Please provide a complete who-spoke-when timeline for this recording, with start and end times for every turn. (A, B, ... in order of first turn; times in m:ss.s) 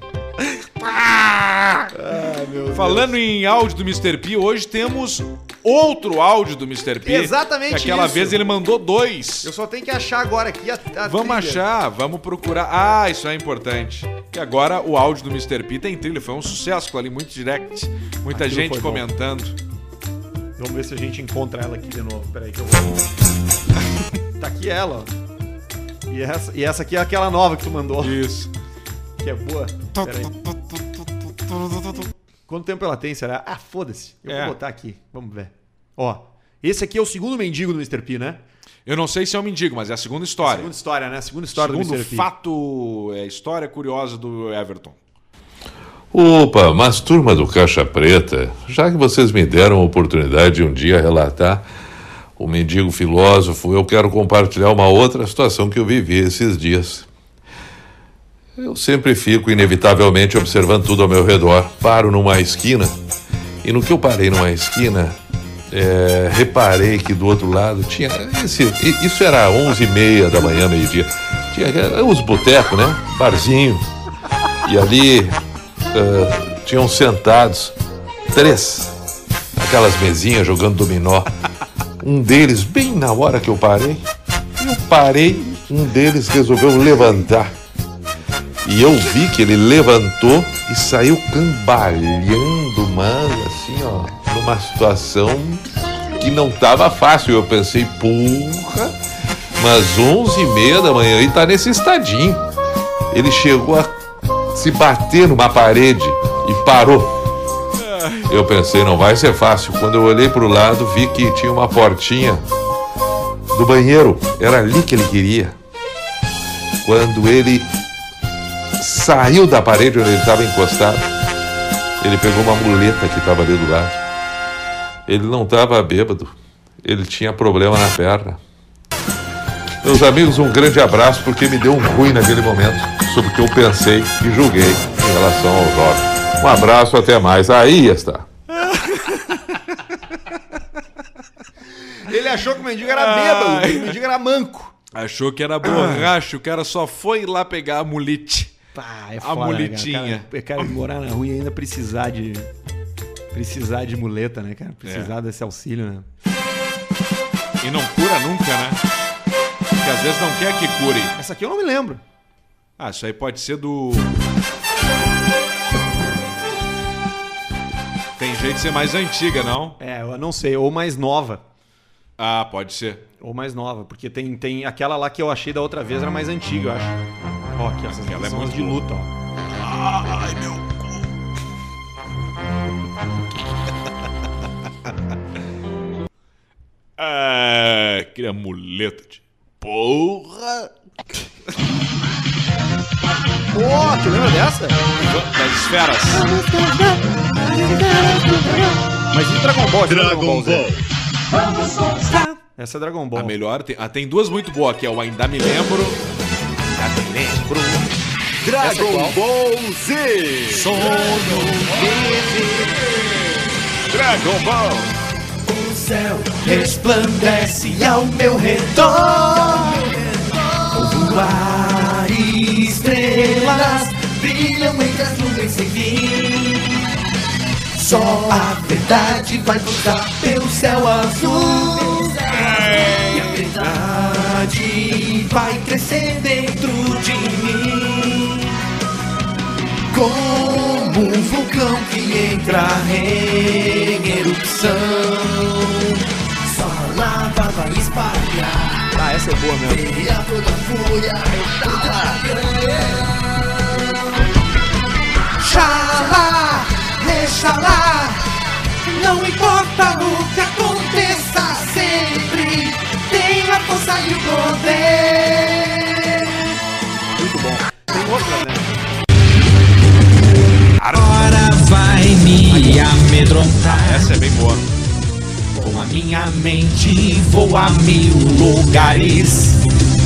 0:00.4-0:01.9 A
0:01.9-0:03.2 B
0:02.7-0:09.5 A
0:07.0-0:08.5 B
0:09.4-0:11.6 B
0:11.0-0:19.6 A
0:18.3-0:19.1 B
0:20.6-0:23.1 B
0:24.4-0:25.1 B
0:26.1-0:28.2 B
0:28.0-0:28.5 A
0:29.2-0:30.4 B
0:30.0-0:32.1 A
0:32.5-0:38.4 B
0:34.3-0:34.6 A
0:38.9-0:40.7 A
0:40.4-0:42.3 B
0:41.5-0:45.0 A
0:46.1-0:51.7 C
0:52.4-0:57.1 C
0:58.6-1:03.0 C
1:03.6-1:05.2 C
1:05.7-1:13.9 C
1:14.6-1:15.4 C
1:15.9-1:17.8 C
1:18.3-1:19.0 C
1:19.6-1:21.3 C
1:22.0-1:24.1 C
1:24.6-1:27.5 C
1:28.6-1:39.0 C
1:39.6-1:42.4 C
1:43.1-1:44.0 C
1:44.5-1:47.2 C
1:47.8-1:48.3 A
1:48.3-1:52.4 C
1:53.5-1:55.6 C
1:56.8-1:57.7 C
1:58.8-2:01.1 C
2:02.0-2:04.0 C
2:05.1-2:08.4 C
2:09.8-2:18.3 C
2:18.6-2:19.6 A
2:20.3-2:20.6 A
2:22.0-2:24.8 B
2:22.8-2:24.0 A
2:24.9-2:28.6 A
2:25.6-2:26.1 B
2:28.7-2:32.5 B
2:29.2-2:30.3 A
2:33.3-2:36.1 B
2:34.8-2:35.1 A
2:37.6-2:38.8 A
2:39.8-2:41.1 A
2:41.2-2:42.0 B
2:42.8-2:44.1 A
2:48.2-2:49.8 A
2:49.8-2:51.4 B
2:52.2-2:53.0 A
2:53.2-2:57.0 B
2:57.6-2:59.1 B
2:57.9-2:58.8 A
2:59.6-3:01.0 A
3:07.0-3:10.7 A
3:13.5-3:14.8 B
3:15.0-3:16.3 A
3:16.1-3:18.8 D
3:19.1-3:20.8 B
3:21.3-3:22.4 D
3:22.6-3:23.4 B
3:23.2-3:26.0 A
3:26.8-3:27.9 A
3:28.6-3:29.2 B
3:28.6-3:31.9 A
3:28.6-3:29.2 D
3:30.4-3:32.9 D
3:33.9-3:34.9 A
3:35.4-3:46.9 D
3:47.7-3:58.6 D
3:59.9-4:09.0 D
4:08.9-4:09.9 B
4:09.6-4:13.8 D
4:11.6-4:12.2 B
4:15.4-4:26.3 D
4:27.2-4:28.8 B
4:30.8-4:31.3 A
4:30.9-4:34.1 D
4:32.5-4:33.0 B
4:33.7-4:34.7 A
4:35.6-4:39.6 D